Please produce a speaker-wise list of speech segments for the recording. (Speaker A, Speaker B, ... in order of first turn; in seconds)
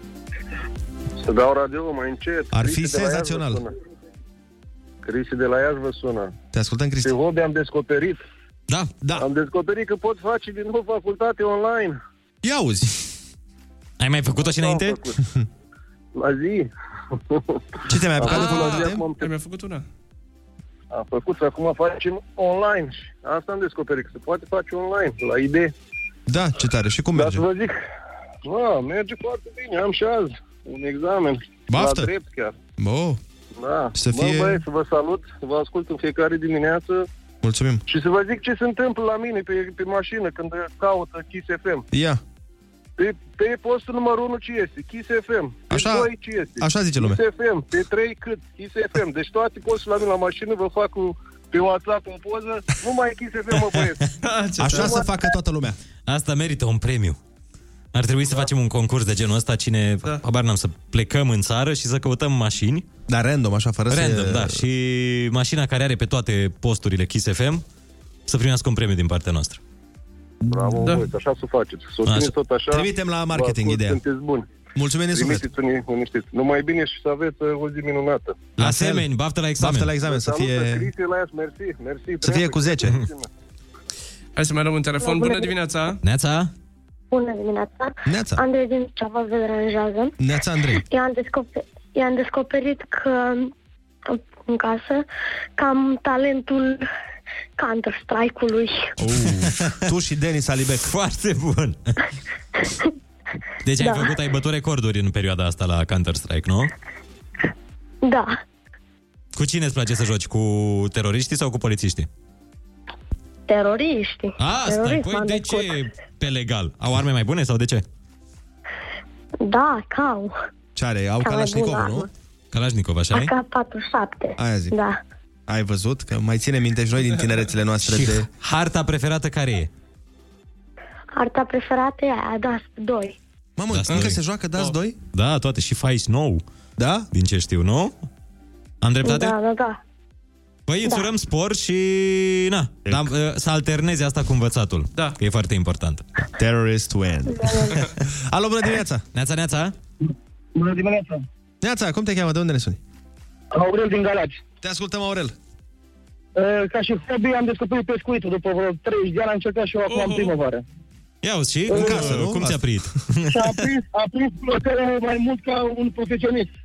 Speaker A: 1.2-3.7, 5.0-6.3, 7.0-8.2, 9.2-12.0, 14.4-15.2, 16.1-16.7, 17.3-17.6, 18.1-19.3, 20.9-25.7, 27.1-27.8, 28.4-32.5, 33.6-37.1, 37.9-41.9, 43.0-54.0, 54.6-55.0, 70.5-74.4, 75.1-78.5, 80.0-83.3
Speaker B: 2.5-3.6, 6.5-7.1, 12.4-13.0, 17.9-19.0, 26.3-27.4, 31.7-32.1, 32.8-33.2, 33.9-34.6, 37.4-37.8, 41.9-42.2, 45.7-47.2, 54.6-55.8, 63.1-64.6, 70.5-70.8, 72.7-74.0, 74.7-75.4, 78.6-79.1, 79.6-80.9, 82.2-82.9, 88.0-88.4, 90.2-90.8, 99.0-100.9, 120.8-122.1, 124.4-124.7, 125.5-128.3, 133.6-135.0, 136.8-137.1, 146.4-149.0, 151.6-152.8, 154.6-155.3, 161.7-162.6
Speaker C: 14.0-15.0, 56.1-57.2, 57.9-62.8, 63.9-67.6, 68.3-69.6, 72.0-72.3, 78.6-79.9, 86.0-86.5, 100.9-101.9, 103.6-106.7, 109.3-112.1, 114.4-117.8, 122.5-123.3, 127.8-129.7, 133.7-134.2, 135.1-136.4, 137.1-137.9, 138.8-139.3, 140.7-146.0, 149.1-149.7, 161.2-163.7
Speaker D: 18.2-19.8, 54.2-55.0, 70.8-71.1, 84.3-86.0, 159.9-160.3
Speaker E: 85.0-85.5, 87.1-90.1, 90.8-93.5, 94.1-95.0, 95.6-96.9, 97.6-98.9, 103.8-104.1, 108.0-108.4, 113.5-115.8, 119.4-120.4, 121.2-122.1, 123.1-125.0, 131.2-133.2, 139.0-139.8, 147.3-147.7
Speaker F: 150.5-151.2, 153.5-154.4, 156.3-160.6, 163.3-166.5